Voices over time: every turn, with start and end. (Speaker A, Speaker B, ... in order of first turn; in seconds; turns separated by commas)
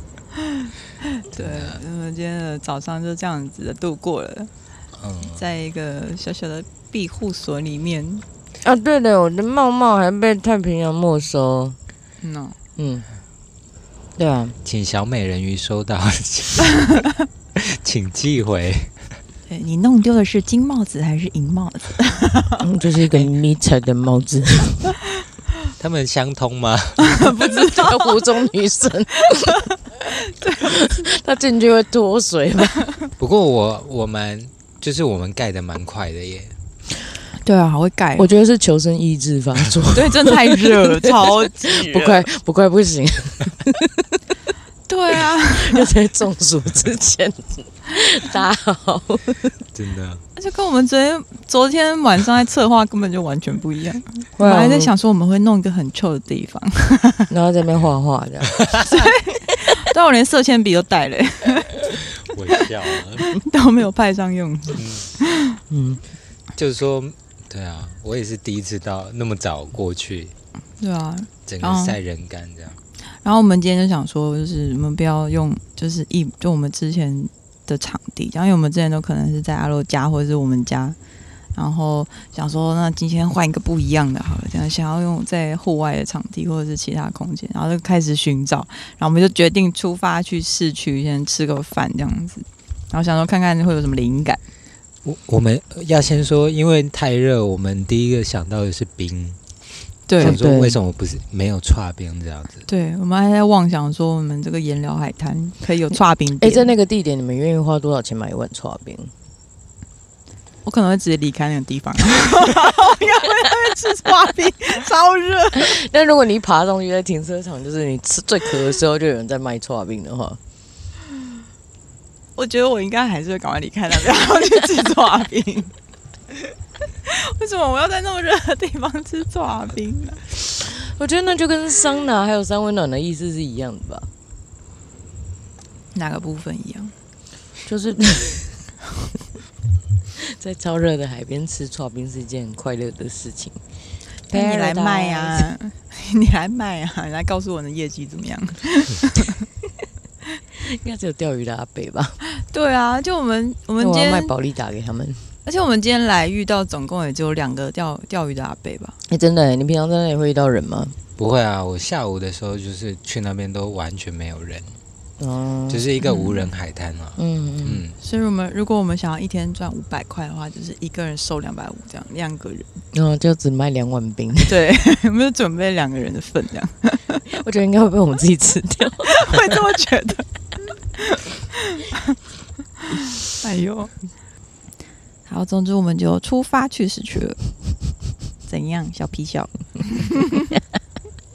Speaker A: 0.5-4.5, Speaker B: 1.3-1.8, Speaker B: 5.0-5.4, Speaker A: 5.2-8.2, Speaker C: 8.6-11.8, Speaker A: 12.2-12.6, Speaker C: 12.8-13.1, Speaker C: 14.2-14.6, Speaker B: 14.6-17.0, Speaker B: 17.5-18.9, Speaker A: 19.5-22.6, Speaker C: 22.6-24.9, Speaker B: 25.8-27.3, Speaker A: 27.0-28.2, Speaker C: 27.2-29.7, Speaker A: 30.1-30.9, Speaker C: 30.6-32.9, Speaker B: 33.2-36.5, Speaker A: 37.4-38.3, Speaker C: 38.1-44.2, Speaker A: 39.9-42.2, Speaker A: 44.9-45.9, Speaker C: 45.5-49.5, Speaker B: 49.7-50.2, Speaker A: 50.4-57.3, Speaker C: 54.4-54.9, Speaker C: 57.3-58.6, Speaker B: 58.6-58.9, Speaker A: 58.8-62.6, Speaker B: 61.9-63.3, Speaker A: 63.2-65.6, Speaker B: 64.8-65.1, Speaker C: 65.7-66.0, Speaker B: 66.5-70.3, Speaker A: 70.8-72.0, Speaker B: 71.5-72.8, Speaker A: 73.2-81.0, Speaker A: 81.5-94.4, Speaker B: 95.0-99.4, Speaker A: 100.1-100.4, Speaker B: 100.2-102.7, Speaker C: 100.2-100.8, Speaker A: 102.7-106.7, Speaker C: 106.4-109.1, Speaker A: 110.7-115.7, Speaker C: 115.5-120.4, Speaker A: 122.3-125.7, Speaker A: 127.0-130.2, Speaker C: 130.6-134.1, Speaker A: 135.9-136.9, Speaker C: 137.7-138.7, Speaker C: 140.2-143.6, Speaker C: 144.3-145.5, Speaker A: 144.3-149.4, Speaker C: 150.6-152.2, Speaker A: 152.4-154.3, Speaker C: 153.8-155.3, Speaker A: 155.4-159.0, Speaker C: 159.1-160.9, Speaker B: 161.2-164.8, Speaker C: 165.2-165.8, Speaker B: 165.7-167.9, Speaker A: 166.0-166.5, Speaker C: 167.2-167.8, Speaker A: 168.0-172.7, Speaker C: 172.9-174.6, Speaker A: 174.5-177.3, Speaker C: 177.3-179.2, Speaker A: 179.1-180.2, Speaker A: 181.0-182.2, Speaker A: 182.9-183.9, Speaker A: 185.3-187.4, Speaker A: 188.5-190.5